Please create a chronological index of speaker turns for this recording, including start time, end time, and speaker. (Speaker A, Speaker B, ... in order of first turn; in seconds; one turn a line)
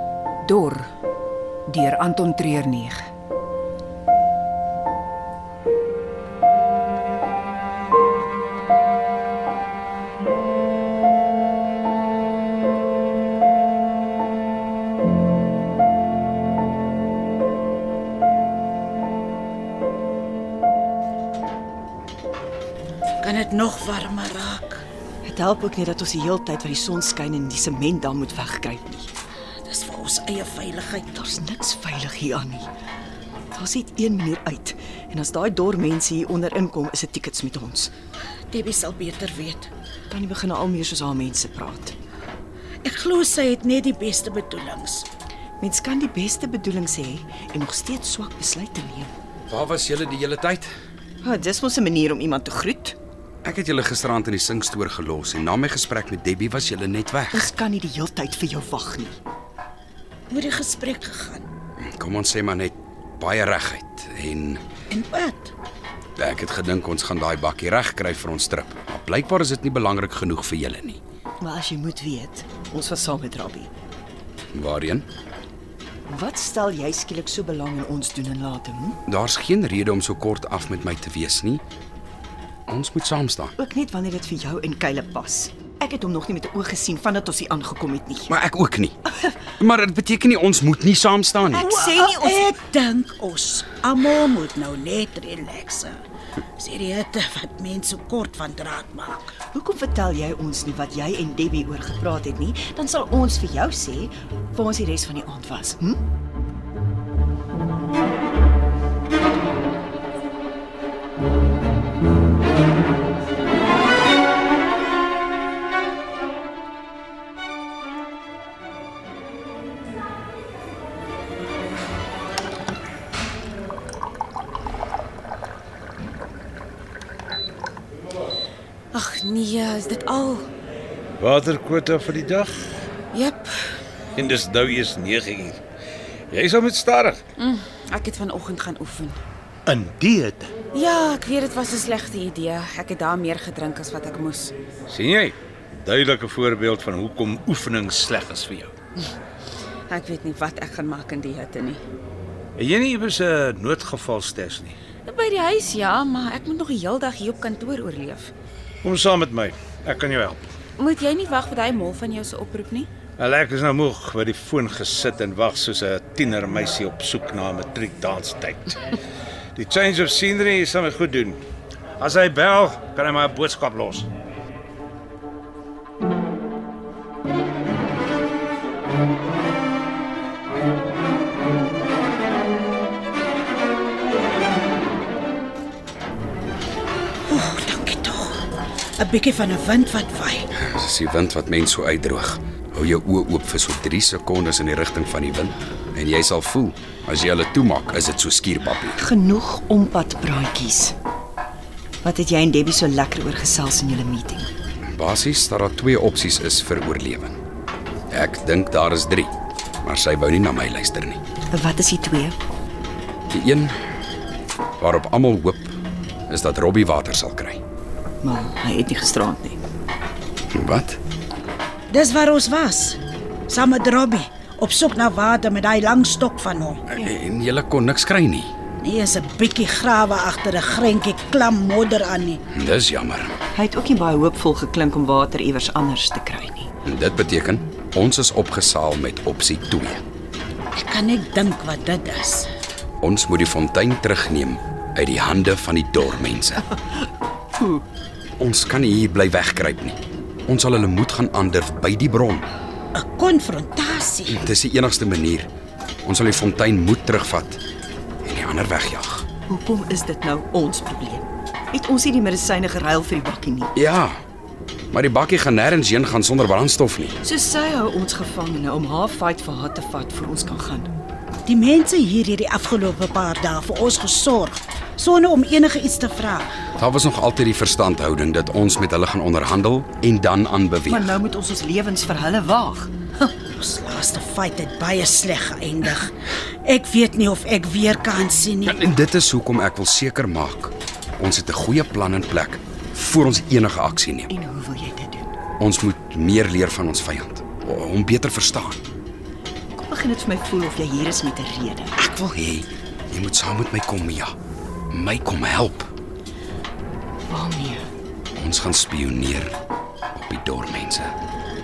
Speaker A: 0.4-0.9
Speaker A: 1.7-3.0
Speaker B: 23.2-24.9
Speaker C: 25.2-29.1
Speaker B: 29.6-31.1
Speaker C: 31.1-32.7
Speaker C: 33.5-37.9
Speaker B: 38.5-39.7
Speaker C: 40.1-41.9
Speaker B: 42.8-45.1
Speaker C: 45.6-49.1
Speaker D: 49.5-50.7
Speaker C: 51.2-53.0
Speaker D: 53.4-57.5
Speaker C: 57.3-59.2
Speaker B: 60.3-61.5
Speaker D: 61.8-64.6
Speaker B: 64.9-65.5
Speaker D: 66.2-71.0
Speaker C: 71.4-73.7
Speaker D: 74.5-75.1
Speaker C: 76.1-79.0
Speaker D: 79.1-81.6
Speaker D: 82.7-83.5
Speaker C: 83.6-88.3
Speaker D: 88.3-91.8
Speaker C: 91.5-92.6
Speaker B: 91.7-96.0
Speaker B: 96.6-99.3
Speaker C: 99.4-106.0
Speaker E: 128.9-130.5
Speaker F: 131.2-132.8
Speaker E: 133.1-133.8
Speaker F: 134.1-135.6
Speaker F: 136.3-137.2
Speaker E: 137.4-139.2
Speaker F: 139.7-140.5
Speaker E: 140.7-144.5
Speaker F: 144.9-148.7
Speaker E: 149.9-151.8
Speaker F: 152.6-154.8
Speaker E: 155.1-158.3
Speaker F: 158.8-160.4
Speaker E: 160.8-162.9
Speaker F: 163.2-168.9
Speaker F: 169.6-171.4
Speaker F: 172.0-174.1
Speaker B: 187.3-188.5
Speaker B: 189.0-190.5
Speaker D: 190.5-199.0
Speaker C: 198.9-200.9
Speaker C: 202.0-204.5
Speaker D: 204.8-207.4
Speaker D: 208.1-209.3
Speaker D: 209.8-211.2
Speaker C: 211.5-212.4
Speaker D: 213.3-213.8
Speaker D: 214.8-215.8
Speaker D: 216.3-217.6
Speaker C: 218.2-219.6
Speaker D: 220.5-221.0
Speaker B: 221.9-226.8
Speaker D: 226.9-228.5
Speaker B: 228.8-232.4
Speaker D: 232.5-233.3
Speaker C: 233.5-236.7
Speaker D: 236.8-240.0
Speaker B: 240.7-242.5
Speaker D: 243.0-246.7
Speaker C: 247.5-247.8
Speaker D: 248.4-252.5
Speaker B: 252.9-254.4
Speaker D: 254.3-255.5
Speaker D: 256.0-257.6
Speaker D: 258.2-259.3
Speaker C: 259.5-263.7
Speaker D: 263.7-264.2
Speaker D: 264.9-267.2
Speaker C: 267.2-270.9
Speaker B: 271.4-276.5
Speaker D: 276.8-281.2
Speaker C: 280.9-283.3
Speaker B: 283.5-288.7
Speaker D: 288.6-294.3
Speaker C: 294.3-295.3
Speaker D: 295.6-298.8
Speaker C: 299.7-301.9
Speaker D: 302.0-304.3
Speaker D: 304.9-305.9
Speaker C: 307.3-307.9
Speaker D: 308.3-309.5
Speaker D: 310.1-311.1